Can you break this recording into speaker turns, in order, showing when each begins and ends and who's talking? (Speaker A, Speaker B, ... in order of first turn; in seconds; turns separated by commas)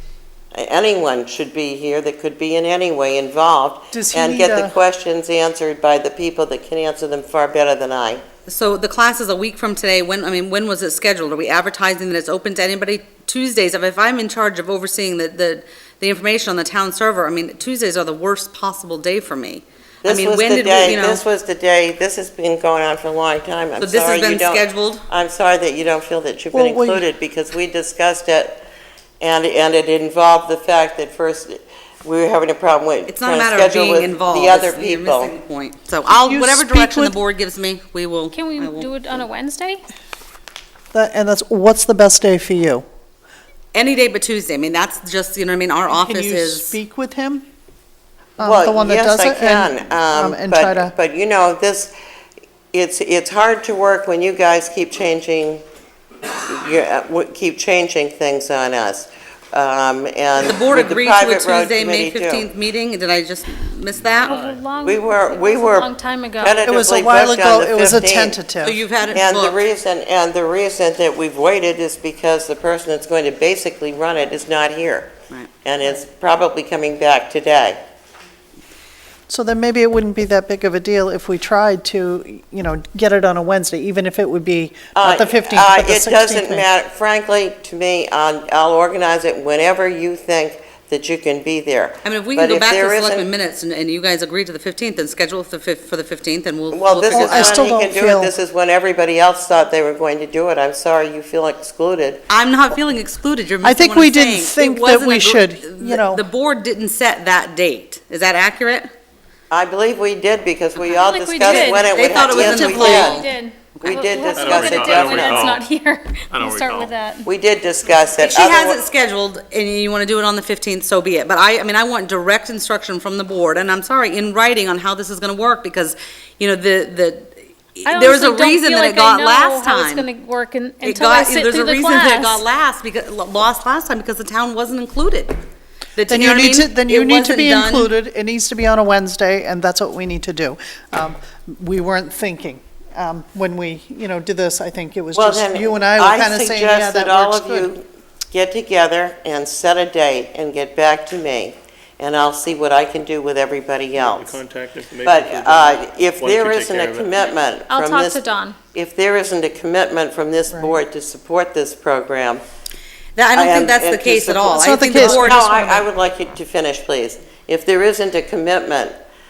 Speaker A: 0.5-8.2, Speaker B: 3.9-4.7, Speaker C: 8.5-21.2, Speaker A: 20.0-28.6, Speaker C: 23.8-25.0, Speaker B: 26.5-27.0, Speaker A: 29.2-35.3, Speaker C: 33.1-39.2, Speaker B: 36.2-37.2, Speaker D: 38.3-39.8, Speaker B: 40.9-42.8, Speaker C: 43.7-46.8, Speaker B: 45.9-47.4, Speaker B: 48.4-50.9, Speaker A: 48.4-51.9, Speaker A: 52.7-55.6, Speaker A: 56.5-62.5, Speaker C: 60.4-64.4, Speaker D: 64.1-66.7, Speaker E: 64.2-64.6, Speaker A: 64.8-68.4, Speaker B: 66.7-68.8, Speaker C: 68.6-69.5, Speaker A: 69.1-75.1, Speaker A: 75.6-77.8, Speaker B: 79.3-86.7, Speaker A: 84.9-93.3, Speaker C: 92.0-97.6, Speaker A: 96.7-102.2, Speaker B: 97.1-98.3, Speaker C: 102.3-108.9, Speaker B: 103.6-106.2, Speaker A: 109.5-113.2, Speaker D: 110.8-117.3, Speaker C: 111.5-114.0, Speaker A: 113.8-115.5, Speaker E: 114.3-115.7, Speaker E: 116.3-116.9, Speaker A: 117.2-118.8, Speaker C: 118.2-130.1, Speaker D: 127.8-132.4, Speaker C: 130.8-135.3, Speaker C: 135.9-137.9, Speaker B: 136.1-147.7, Speaker A: 145.1-154.4, Speaker E: 154.0-157.2, Speaker A: 155.0-158.2, Speaker D: 157.7-158.6, Speaker A: 158.7-162.4, Speaker C: 163.2-165.5, Speaker A: 163.3-168.9, Speaker B: 164.5-165.8